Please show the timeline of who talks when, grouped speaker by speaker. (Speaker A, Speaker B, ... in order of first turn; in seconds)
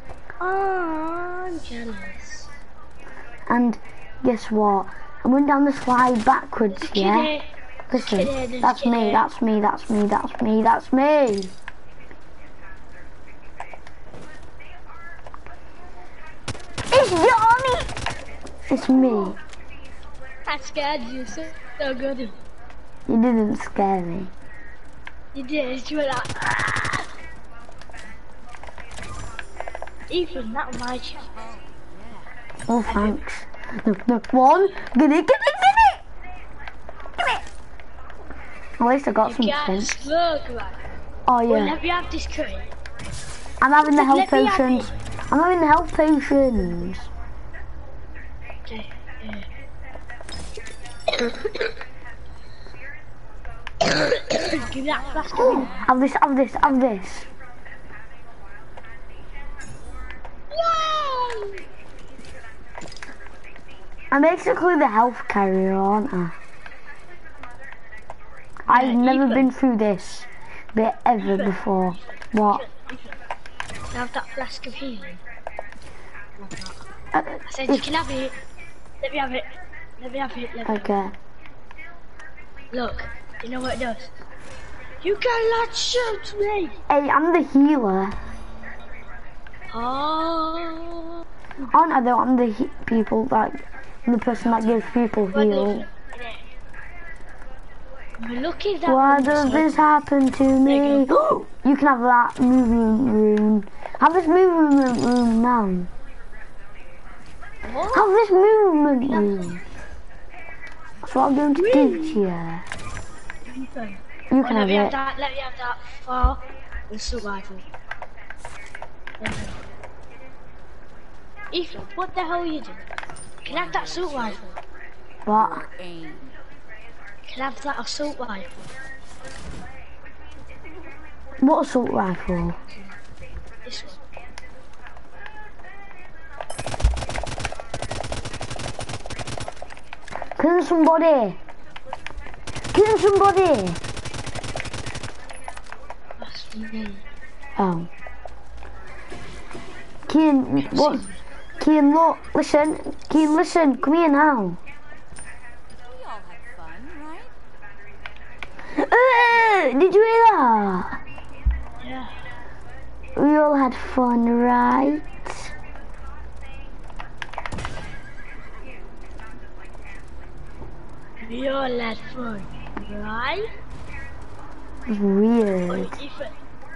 Speaker A: 0.4-2.5, 6.7-9.2, 20.5-22.4, 25.3-27.1, 30.1-31.3, 32.9-33.2, 39.2-40.8, 41.5-42.7, 43.8-44.9, 48.7-49.5, 54.3-55.9, 60.5-61.6, 68.7-69.5, 71.2-71.6, 72.4-73.2, 73.9-75.2, 76.4-76.8, 77.5-78.4, 79.0-81.0, 82.7-84.1, 85.0-86.8, 89.7-91.2, 95.3-96.4, 98.2-99.9, 100.6-101.1, 107.6-108.1, 109.1-109.4, 111.5-112.2, 113.5-117.7, 119.2-119.6, 121.5-122.9, 123.5-124.6, 127.3-128.5, 133.7-134.0, 146.2-147.0, 150.6-151.2, 161.8-162.2, 171.2-173.5, 175.7-176.4
Speaker B: 3.5-7.3, 7.9-11.5, 16.9-17.9, 18.7-19.4, 23.1-24.3, 32.7-36.0, 38.8-39.9, 41.3-41.8, 43.6-47.1, 55.4-57.3, 64.1-66.4, 68.7-72.7, 77.1-77.9, 80.7-81.1, 86.9-88.2, 91.7-95.9, 98.9-105.9, 107.9-109.6, 111.0-112.7, 114.3-115.0, 125.2-125.7, 131.4-132.6, 140.4-141.4, 142.7-143.8, 147.6-147.9, 150.1-151.1, 151.6-154.6, 158.7-161.0, 163.2-165.5, 174.9-176.0
Speaker C: 31.2-32.3, 55.2-55.8, 94.3-95.1, 123.4-124.4, 125.3-126.3, 155.8-157.3